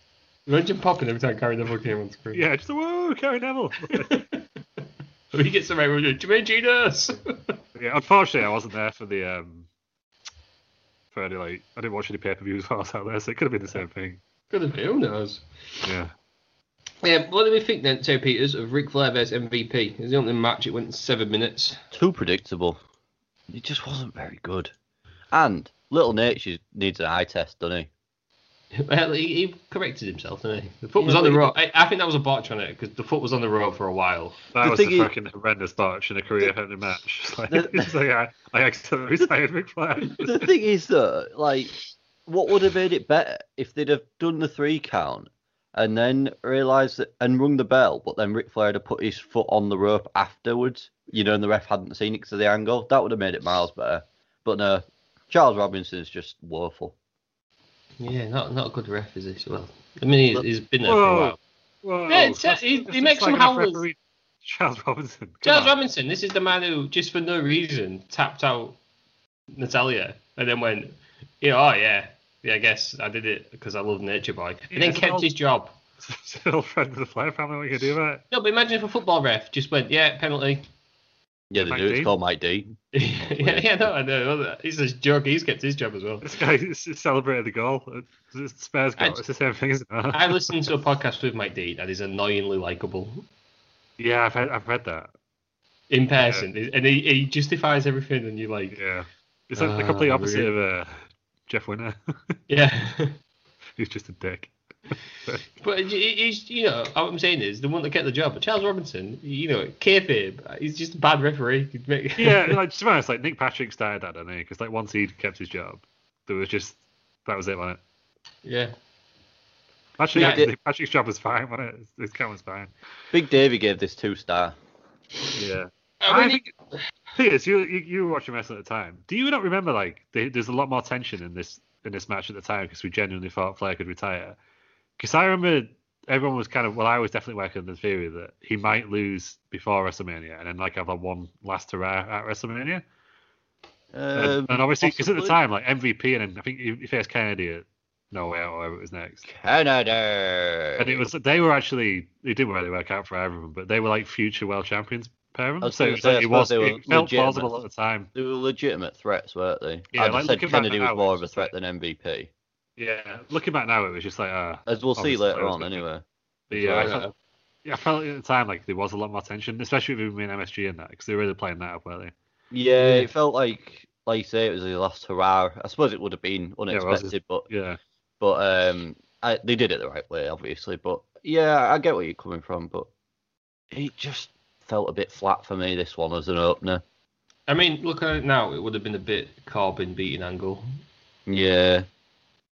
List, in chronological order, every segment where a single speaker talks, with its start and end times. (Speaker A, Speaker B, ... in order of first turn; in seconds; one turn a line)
Speaker A: 0.5-2.4
Speaker B: 2.3-4.2
Speaker A: 3.9-4.4
Speaker A: 5.3-7.5
Speaker B: 7.7-9.7
Speaker B: 11.1-14.2
Speaker A: 14.5-15.4
Speaker B: 15.8-16.1
Speaker A: 17.0-21.8
Speaker C: 21.9-22.8
Speaker C: 23.5-24.7
Speaker C: 25.3-27.9
Speaker A: 28.7-34.5
Speaker C: 31.0-31.5
Speaker B: 34.5-40.3
Speaker C: 34.6-35.1
Speaker C: 37.5-37.9
Speaker C: 40.2-41.7
Speaker C: 42.2-56.9
Speaker A: 58.0-61.4
Speaker B: 60.9-65.7
Speaker A: 62.1-63.8
Speaker A: 65.4-68.8
Speaker A: 69.5-75.8
Speaker B: 74.7-75.3
Speaker B: 76.0-78.2
Speaker A: 78.3-80.7
Speaker C: 81.5-83.9
Speaker B: 81.5-82.1
Speaker A: 82.9-86.3
Speaker B: 86.2-90.5
Speaker A: 90.1-93.2
Speaker B: 94.0-95.1
Speaker A: 95.9-98.8
Speaker B: 96.2-96.5
Speaker B: 98.7-102.0
Speaker A: 99.5-100.5
Speaker A: 102.5-103.2
Speaker B: 103.8-105.4
Speaker A: 105.6-112.6
Speaker B: 112.2-117.8
Speaker A: 118.4-118.7
Speaker B: 120.0-122.7
Speaker C: 120.1-120.5
Speaker A: 120.2-120.4
Speaker C: 123.1-124.5
Speaker B: 125.3-126.5
Speaker A: 126.0-126.5
Speaker B: 127.1-134.4
Speaker B: 135.0-142.8
Speaker C: 143.9-145.4
Speaker B: 144.1-149.2
Speaker C: 149.2-151.1
Speaker B: 150.8-158.1
Speaker C: 155.6-157.6
Speaker C: 158.1-162.3
Speaker B: 159.9-161.5
Speaker B: 162.8-165.8
Speaker C: 164.7-166.0
Speaker B: 166.5-167.1
Speaker C: 166.6-166.9
Speaker A: 166.8-167.1
Speaker B: 167.6-172.1
Speaker C: 172.5-177.5
Speaker A: 172.8-173.1
Speaker B: 176.7-177.8
Speaker C: 178.2-182.9
Speaker C: 183.7-186.8
Speaker A: 187.5-190.7
Speaker C: 191.3-191.8